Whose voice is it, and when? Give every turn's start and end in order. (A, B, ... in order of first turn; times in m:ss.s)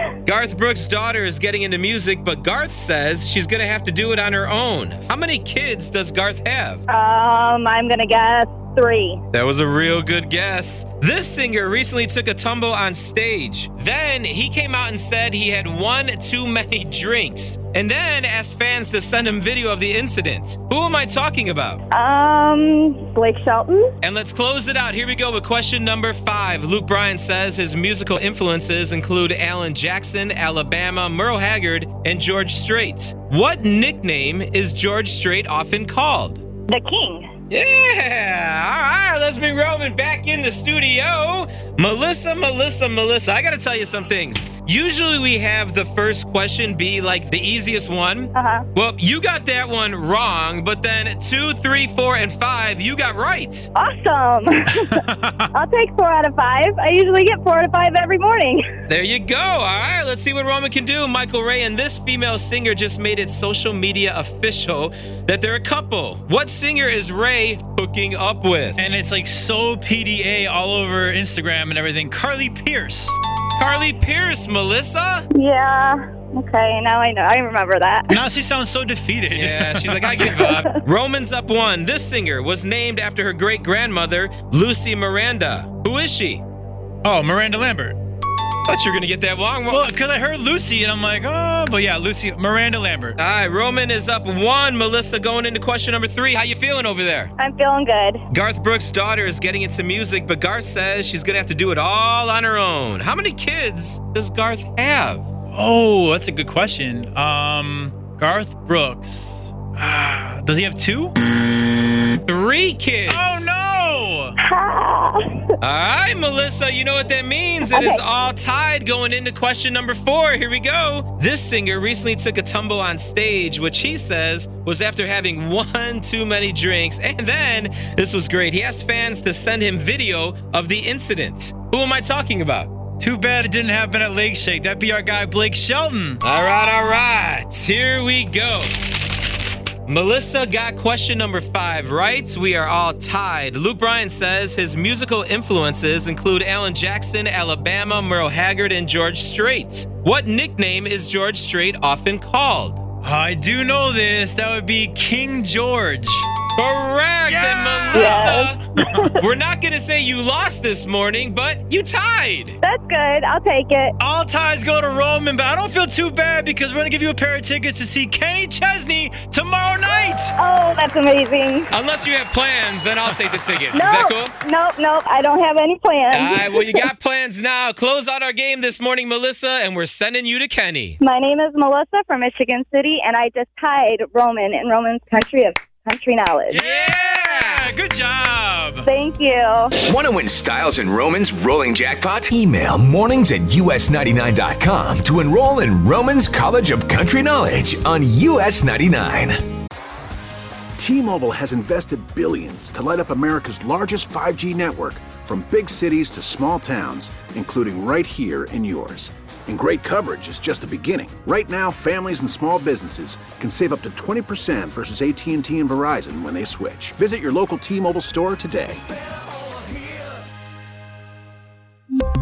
0:00.2-0:06.8 A
0:06.9-0:09.2 B
0:09.3-0:21.8 A
0:21.9-0:23.9 B
0:24.0-0:36.4 A
0:36.7-0:37.3 B
0:37.5-0:53.7 A
0:48.3-0:48.6 B
0:53.7-0:55.0 B
0:54.9-0:55.5 C
0:55.5-0:58.6 B
0:58.9-1:08.8 A
1:08.8-1:13.2 C
1:13.6-1:15.2 A
1:15.3-1:18.2 B
1:18.1-1:20.0 C
1:19.3-1:26.4 A
1:20.3-1:20.6 B
1:27.0-1:28.0 C
1:28.6-1:29.8 A
1:29.7-1:33.2 C
1:33.2-1:37.3 A
1:37.4-1:38.2 B
1:38.3-1:45.2 A
1:45.5-1:51.1 C
1:52.3-1:53.6 A
1:53.1-1:54.3 C
1:54.4-1:55.4 B
1:55.6-2:12.7 A
1:57.7-1:58.0 B
2:13.0-2:16.2 C
2:16.2-2:18.7 A
2:19.9-2:32.8 A
2:33.0-2:36.3 C
2:36.6-2:38.6 A
2:37.3-2:39.0 C
2:37.9-2:39.1 B
2:39.2-2:42.6 A
2:42.6-2:43.9 B
2:44.0-2:50.3 C
2:50.4-2:51.7 B
2:51.7-2:54.3 A
2:53.7-2:56.8 B
2:56.1-3:01.0 A
3:01.0-3:06.6 B
3:06.5-3:08.8 C
3:06.6-3:07.7 A
3:08.8-3:09.7 B
3:09.8-3:19.4 D
3:20.8-3:38.8 E